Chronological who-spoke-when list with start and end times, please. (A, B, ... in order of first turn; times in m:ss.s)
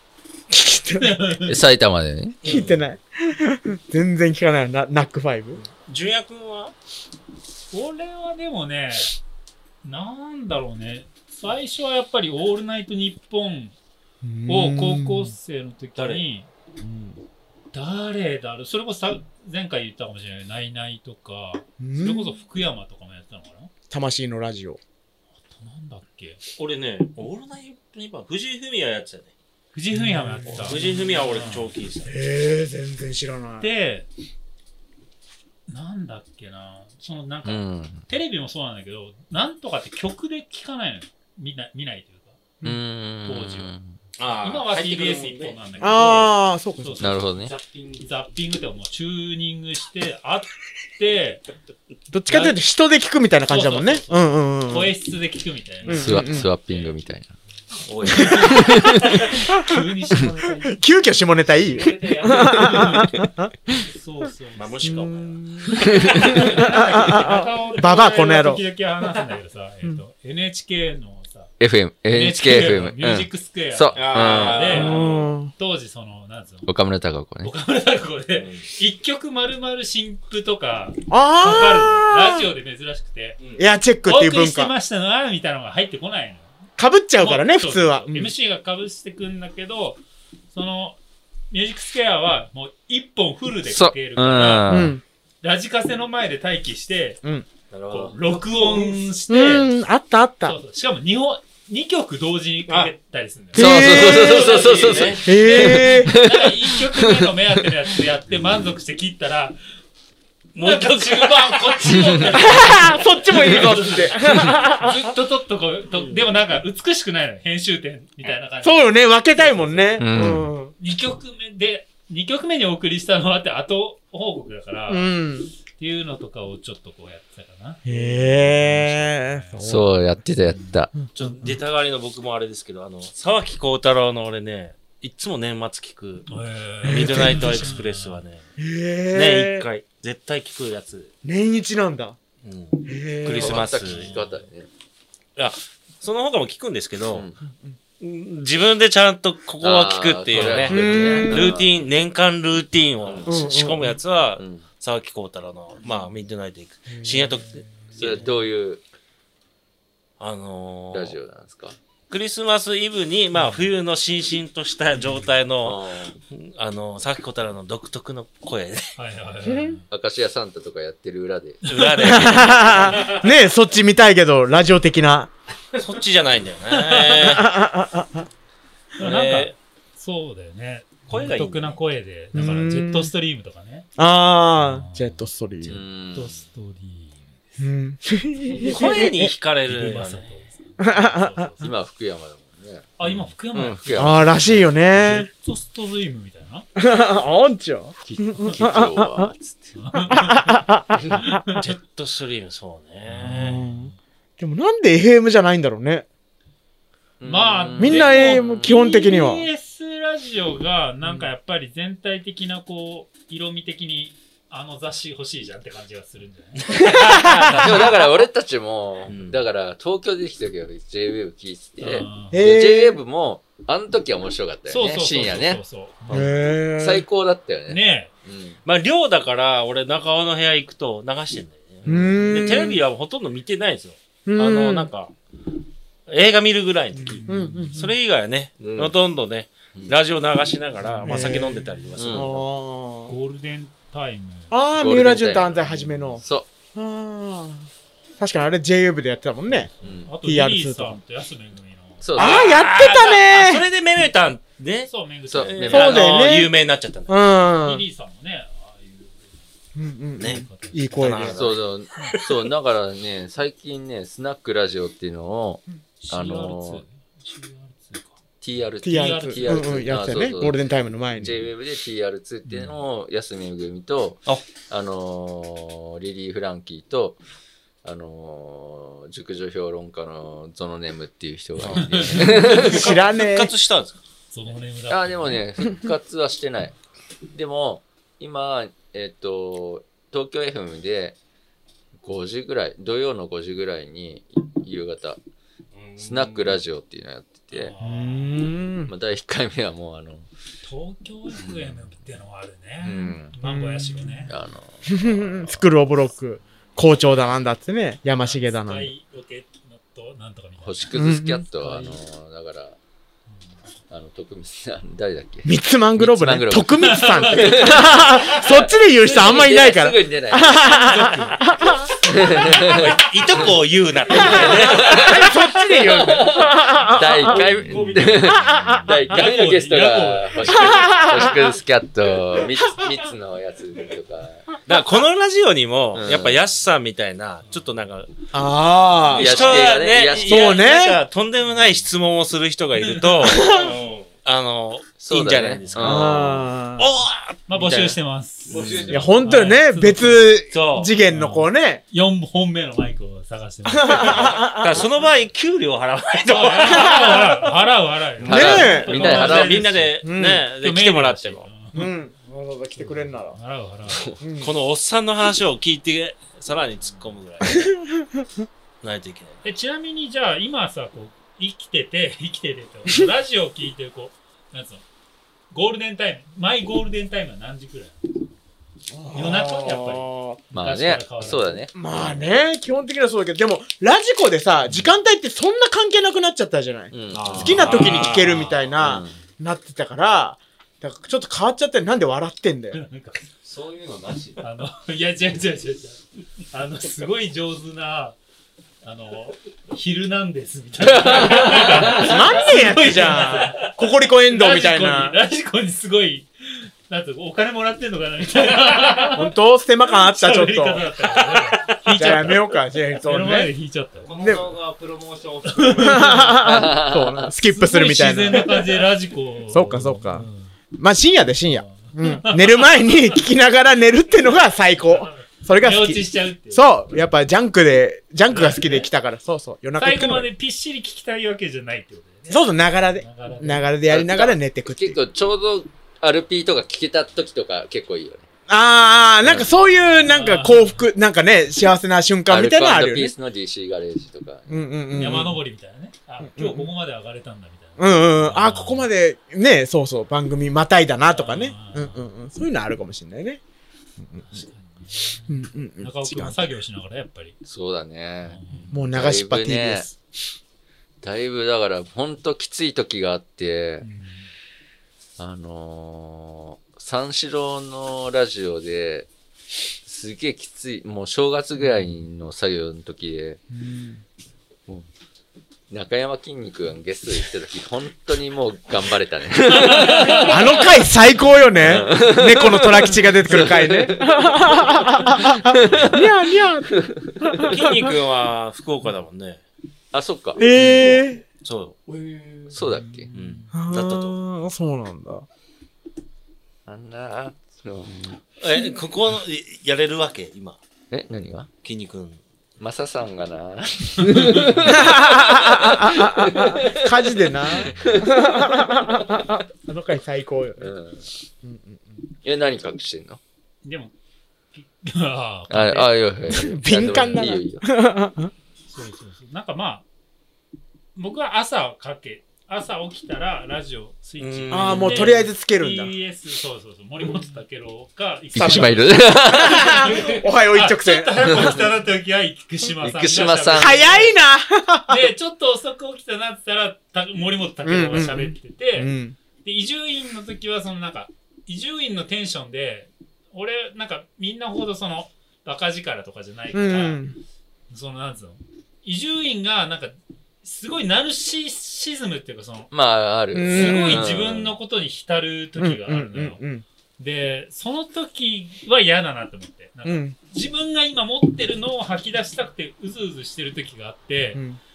0:00.5-0:01.3 A
0:01.0-0:01.6 B
0:01.4-0:02.6 C
0:02.4-0:05.6 A
0:02.4-0:02.8 D
0:05.8-0:06.7 D
0:07.7-0:09.1 B
0:09.8-0:13.7 B
0:14.2-0:15.3 A
0:14.5-0:23.7 B
0:16.0-0:16.2 D
0:21.8-0:22.4 A
0:23.9-0:24.8 A
0:25.4-0:26.4 B
0:26.6-0:29.3 D
0:29.7-0:31.7 B
0:29.9-0:30.8 A
0:30.5-0:32.1 D
0:32.0-0:33.7 A
0:33.6-0:34.1 B
0:35.7-0:42.4 B
0:37.4-0:38.0 C
0:42.6-0:44.0 C
0:43.2-0:43.7 B
0:44.2-0:45.6 D
0:44.4-0:47.2 B
0:45.8-0:47.0 A
0:47.0-0:47.5 C
0:47.4-0:48.1 E
0:48.0-0:51.4 B
0:52.1-0:54.9 A
0:52.3-0:52.6 B
0:53.5-0:57.0 B
0:55.9-0:56.5 A
0:55.9-0:57.3 C
0:57.8-0:59.0 D
0:58.1-0:59.7 A
0:58.5-0:59.1 C
0:59.0-1:00.8 B
1:00.6-1:03.8 A
1:01.6-1:02.9 E
1:02.6-1:03.0 B
1:03.7-1:05.0 B
1:04.5-1:05.4 D
1:04.8-1:08.6 A
1:05.9-1:06.4 C
1:06.0-1:11.5 B
1:11.6-1:14.7 C
1:12.1-1:16.7 B
1:13.9-1:15.3 D
1:14.7-1:15.5 A
1:16.6-1:17.5 C
1:17.4-1:23.4 B
1:18.3-1:18.7 D
1:21.1-1:22.5 A
1:23.4-1:23.7 D
1:23.6-1:24.7 A
1:24.0-1:26.5 B
1:26.8-1:28.3 A
1:27.2-1:31.0 B
1:31.5-1:34.7 B
1:33.6-1:34.9 C
1:34.7-1:35.0 A
1:35.4-1:37.2 B
1:37.7-1:39.0 D
1:37.9-1:39.7 B
1:39.3-1:40.6 A
1:40.4-1:44.0 B
1:42.7-1:42.9 D
1:43.5-1:44.4 A
1:43.5-1:47.4 C
1:43.9-1:45.2 D
1:45.2-1:46.1 A
1:45.2-1:49.6 B
1:50.5-1:52.3 D
1:50.6-2:00.0 B
1:52.0-1:52.3 C
1:52.3-1:55.1 A
1:53.4-1:53.7 C
1:58.6-2:00.7 A
2:00.0-2:00.5 C
2:00.8-2:09.6 B
2:04.9-2:05.5 A
2:07.8-2:09.9 A
2:09.6-2:10.9 C
2:10.5-2:10.8 B
2:11.1-2:16.3 D
2:16.3-2:18.2 B
2:16.8-2:17.5 A
2:16.8-2:18.4 D
2:18.6-2:19.7 A
2:19.1-2:21.1 D
2:21.2-2:22.2 A
2:22.4-2:24.0 D
2:22.8-2:23.5 A
2:23.4-2:24.7 C
2:23.8-2:24.4 B
2:25.4-2:27.3 D
2:27.0-2:27.3 C
2:28.0-2:38.3 D
2:29.6-2:31.8 C
2:30.6-2:31.6 A
2:33.0-2:33.3 C
2:33.2-2:34.0 A
2:34.4-2:34.6 C
2:37.0-2:37.3 A
2:37.9-2:38.8 C
2:40.2-2:41.2 D
2:40.9-2:41.8 C
2:42.1-2:48.8 D
2:45.6-2:46.1 C
2:49.0-2:49.8 B
2:49.4-2:49.8 A
2:49.9-2:52.5 C
2:51.6-2:53.2 D
2:52.0-2:55.3 A
2:55.7-2:57.5 D
2:57.2-2:58.3 A
2:59.0-3:03.9 B
2:59.0-2:59.5 D
3:01.1-3:01.8 D
3:02.3-3:03.1 A
3:04.0-3:05.8 A
3:04.5-3:07.6 B
3:05.6-3:06.4 C
3:07.6-3:09.3 A
3:08.5-3:10.3 D
3:09.6-3:11.7 B
3:10.8-3:11.5 A
3:11.6-3:14.8 C
3:13.0-3:16.6 B
3:13.9-3:15.3 A
3:16.8-3:19.3 A
3:18.0-3:19.7 C
3:19.7-3:20.6 B
3:20.1-3:21.4 A
3:21.3-3:21.6 B
3:21.6-3:23.6 D
3:23.1-3:23.9 B
3:23.3-3:26.0 A
3:27.2-3:28.7 C
3:27.2-3:36.8 B
3:27.8-3:29.5 A
3:36.6-3:38.2 D
3:37.0-3:37.4 A
3:37.4-3:45.6 C
3:39.0-3:39.4 D
3:41.8-3:42.4 B
3:42.2-3:43.0 A
3:44.7-3:46.2 B
3:46.1-3:47.0 A
3:46.7-3:48.6 C
3:47.7-3:48.1 B
3:48.6-3:55.1 D
3:51.8-3:52.8 A
3:54.2-3:54.9 A
3:56.1-4:02.4 D
3:57.0-3:57.9 A
3:57.2-3:57.9 B
3:58.6-3:58.9 C
4:00.8-4:01.3 B
4:01.0-4:03.1 A
4:02.0-4:02.3 C
4:03.1-4:04.5 B
4:04.5-4:06.2 A
4:04.7-4:06.5 C
4:06.7-4:11.0 A
4:09.8-4:10.1 C
4:10.0-4:12.1 B
4:12.0-4:12.4 C
4:12.2-4:17.2 D
4:12.2-4:13.6 A
4:14.8-4:16.1 B
4:15.3-4:16.0 C
4:15.7-4:17.8 A
4:17.6-4:19.4 B
4:19.7-4:21.4 A
4:20.2-4:22.4 D
4:20.3-4:21.3 B
4:21.1-4:26.8 C
4:26.0-4:28.2 B
4:28.4-4:30.6 C
4:28.8-4:29.7 B
4:28.8-4:31.4 A
4:31.2-4:37.2 C
4:32.5-4:32.8 B
4:37.8-4:42.8 C
4:41.6-4:44.0 D
4:41.8-4:42.3 B
4:42.5-4:43.5 A
4:44.3-4:45.4 B
4:44.9-4:46.7 C
4:47.3-4:51.2 C
4:52.0-4:55.2 C
4:55.9-4:56.6 E
4:56.0-4:57.7 C
4:57.5-4:58.5 B
4:57.8-4:58.9 A
4:58.9-5:00.3 C
5:00.6-5:04.3 B
5:01.4-5:01.8 C
5:02.8-5:03.4 C
5:03.4-5:04.2 A
5:04.2-5:05.6 C
5:04.8-5:08.9 A
5:08.2-5:10.9 B
5:10.6-5:12.8 C
5:10.9-5:11.7 A
5:11.6-5:12.0 B
5:13.3-5:13.6 B
5:13.9-5:20.9 C
5:15.4-5:21.9 A
5:16.9-5:19.5 B
5:20.6-5:21.5 B
5:22.0-5:23.5 C
5:22.4-5:22.8 B
5:22.6-5:25.2 D
5:24.1-5:27.4 A
5:24.4-5:34.4 C
5:27.3-5:31.0 B
5:27.5-5:28.1 D
5:30.5-5:31.4 A
5:34.6-5:38.1 D
5:35.9-5:36.4 C
5:38.3-5:39.4 A
5:39.1-5:48.0 D
5:39.1-5:40.4 C
5:40.2-5:41.0 A
5:43.2-5:43.7 A
5:43.4-5:44.1 E
5:45.0-5:46.4 C
5:45.8-5:46.9 A
5:47.5-5:50.4 B
5:48.5-5:49.3 E
5:48.5-5:48.9 D
5:48.9-5:51.8 A
5:50.5-5:50.9 D
5:51.1-5:54.4 B
5:53.6-5:54.8 A
5:54.1-5:57.4 D
5:56.2-6:00.0 B
5:56.6-5:57.3 A
5:58.2-5:59.6 C
5:58.2-5:59.2 A
5:58.3-6:01.5 D
5:59.9-6:00.5 A
6:00.6-6:01.9 B
6:01.7-6:03.4 A
6:02.8-6:04.1 B
6:04.2-6:04.5 A
6:04.4-6:07.7 D
6:07.4-6:08.3 A
6:08.8-6:09.4 D
6:09.4-6:14.8 B
6:15.5-6:18.3 B
6:18.9-6:20.4 A
6:19.1-6:21.6 B
6:20.5-6:21.7 C
6:21.7-6:32.8 A
6:26.9-6:27.8 C
6:27.1-6:28.6 D
6:28.8-6:29.2 C
6:32.7-6:33.2 B
6:33.4-6:34.4 E
6:34.4-6:38.2 B
6:38.8-6:49.3 B
6:41.9-6:45.2 A
6:49.1-6:50.8 A
6:49.8-6:52.4 B
6:51.9-6:53.5 A
6:53.0-6:54.1 B
6:54.0-6:56.1 E
6:54.2-6:54.5 A
6:55.4-6:56.5 B
6:55.8-6:58.6 A
6:56.4-6:57.3 C
6:57.5-7:00.5 B
6:59.5-7:00.2 A
7:00.8-7:10.3 A
7:01.4-7:03.0 B
7:04.9-7:06.7 B
7:08.2-7:08.9 B
7:09.8-7:13.8 B
7:12.3-7:15.0 A
7:13.9-7:18.2 C
7:18.5-7:23.1 A
7:19.2-7:19.6 C
7:19.9-7:20.9 B
7:22.3-7:24.6 C
7:24.5-7:25.4 A
7:24.9-7:28.9 B
7:26.2-7:26.7 A
7:27.8-7:33.4 A
7:31.1-7:32.1 B
7:34.0-7:34.4 A
7:34.2-7:37.4 B
7:35.3-7:36.5 A
7:37.4-7:39.9 C
7:38.2-7:38.8 B
7:38.7-7:40.0 A
7:41.0-7:43.8 C
7:43.8-7:44.3 B
7:45.2-7:49.1 C
7:49.8-7:53.4 C
7:55.7-8:00.9 C
7:59.8-8:00.2 B
8:00.2-8:07.9 A
8:01.6-8:07.2 C
8:07.4-8:09.4 D
8:09.9-8:10.9 C
8:10.4-8:11.2 A
8:11.4-8:11.8 D
8:11.9-8:12.5 E
8:12.5-8:13.1 C
8:12.6-8:13.6 B
8:13.1-8:14.2 D
8:13.5-8:15.2 A
8:16.6-8:18.2 C
8:18.4-8:20.6 D
8:20.9-8:21.5 C
8:21.6-8:22.2 D
8:22.6-8:28.1 C
8:24.4-8:24.6 B
8:24.6-8:30.7 A
8:27.5-8:28.0 B
8:30.6-8:31.1 C
8:31.4-8:32.0 A
8:32.2-8:33.2 C
8:33.6-8:33.9 B
8:34.5-8:35.9 B
8:35.5-8:37.6 C
8:36.3-8:38.3 A
8:38.7-8:39.8 B
8:40.9-8:54.2 B
8:44.2-8:45.2 D
8:44.5-8:46.0 A
8:48.3-8:50.0 C
8:48.4-8:51.7 A
8:52.8-8:53.8 C
8:53.5-8:55.1 A
8:54.9-8:58.9 B
8:57.6-8:59.2 A
8:59.4-9:07.0 B
9:06.5-9:07.2 A
9:07.7-9:12.7 B
9:12.7-9:14.5 C
9:13.3-9:14.1 A
9:13.4-9:16.4 B
9:15.6-9:16.6 A
9:17.0-9:24.4 B
9:19.8-9:20.2 A
9:24.3-9:24.6 A